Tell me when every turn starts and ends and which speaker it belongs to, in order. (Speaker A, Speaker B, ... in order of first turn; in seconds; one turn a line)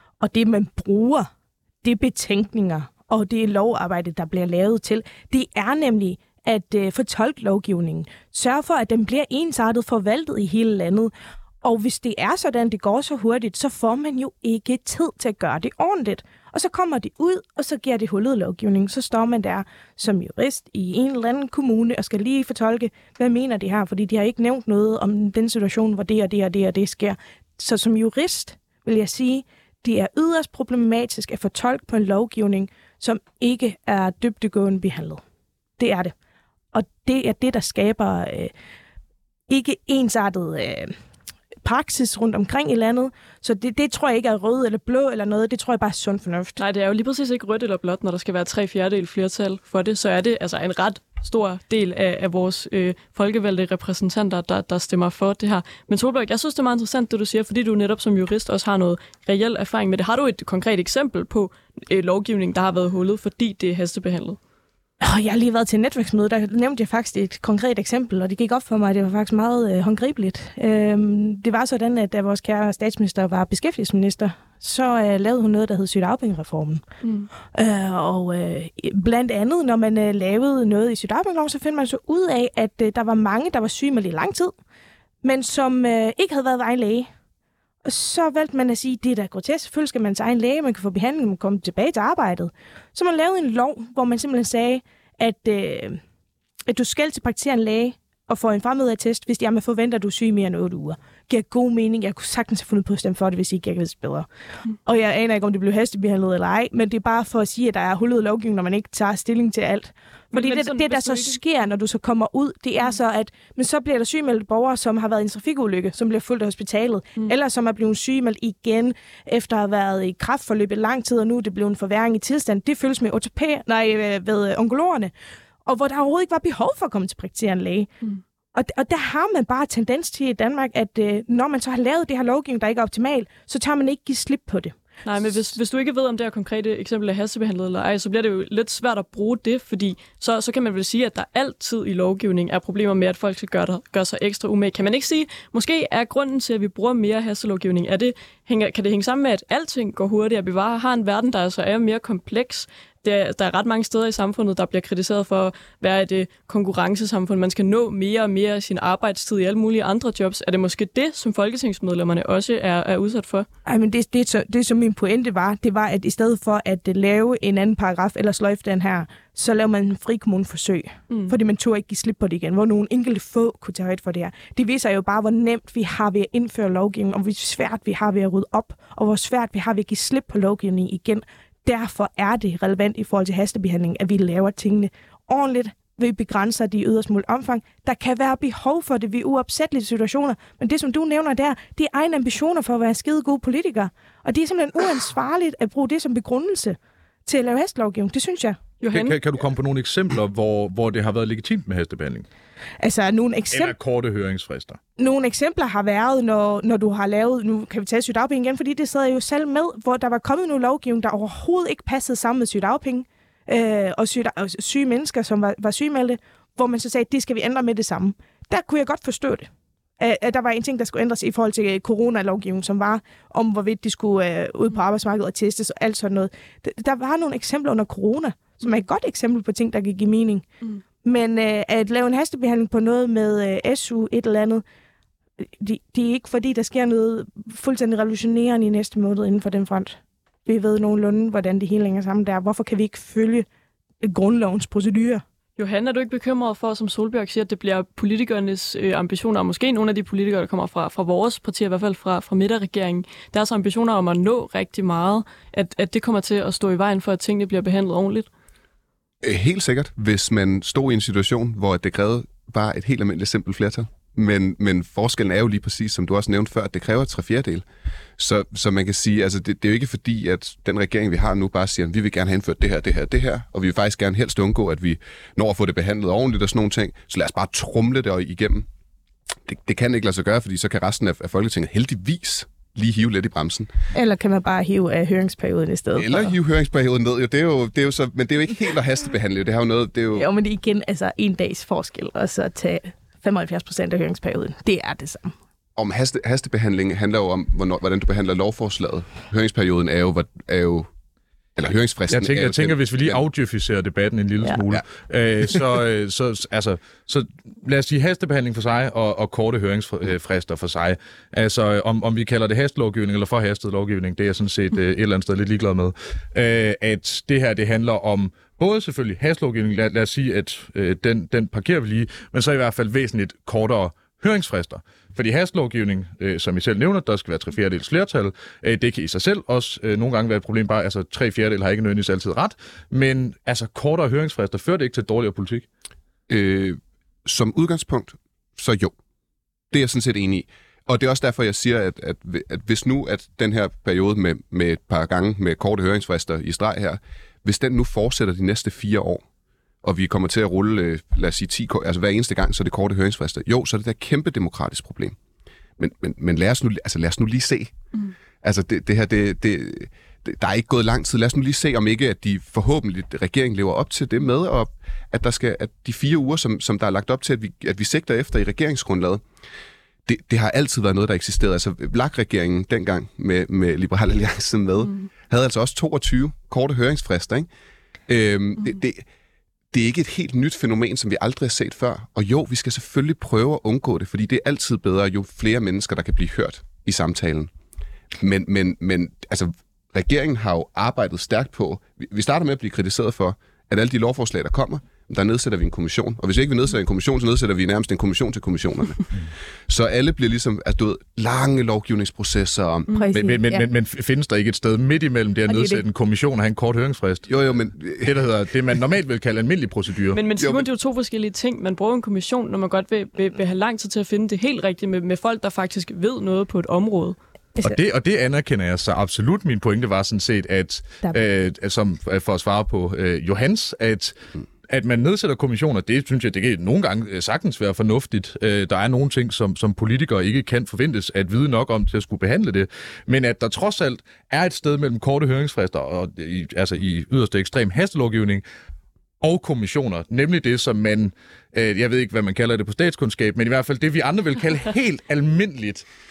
Speaker A: 0.2-1.3
Speaker A: 1.8-11.1
Speaker A: 11.6-35.2
Speaker A: 35.8-36.1
Speaker A: 36.7-38.5
Speaker A: 39.5-40.9
Speaker A: 41.6-46.6
Speaker B: 46.6-64.4
Speaker A: 65.0-76.8
Speaker B: 77.0-77.3
Speaker A: 77.5-84.5
Speaker A: 85.2-87.1
Speaker A: 87.8-96.0
Speaker A: 96.7-104.3
Speaker A: 104.8-125.1
Speaker B: 110.3-111.4
Speaker A: 125.7-127.9
Speaker A: 128.5-134.8
Speaker B: 135.1-163.5
Speaker A: 163.7-198.6
Speaker B: 198.8-199.2
Speaker C: 198.9-202.3
Speaker A: 202.8-203.8
Speaker C: 203.5-204.8
Speaker A: 205.0-230.5
Speaker A: 231.0-234.6
Speaker A: 235.5-243.5
Speaker A: 244.0-245.2
Speaker B: 245.6-258.3
Speaker D: 259.2-267.7
Speaker D: 268.2-278.7
Speaker D: 279.5-283.7
Speaker A: 283.9-286.3
Speaker D: 286.0-290.3
Speaker A: 290.1-295.4
Speaker D: 295.8-300.9
Speaker D: 301.6-303.2
Speaker C: 302.1-335.7
Speaker D: 336.3-339.0
Speaker D: 339.7-349.2
Speaker D: 349.8-355.2
Speaker D: 355.8-357.8
Speaker D: 358.4-369.2
Speaker D: 370.1-377.5
Speaker D: 378.1-379.1
Speaker D: 379.7-387.5
Speaker D: 388.1-399.2
Speaker D: 399.7-402.9
Speaker A: 402.9-403.7
Speaker C: 403.1-410.2
Speaker A: 405.5-405.8
Speaker D: 407.3-408.2
Speaker B: 410.1-417.2
Speaker D: 410.4-410.7
Speaker C: 417.6-424.2
Speaker C: 424.7-438.4
Speaker C: 439.2-445.9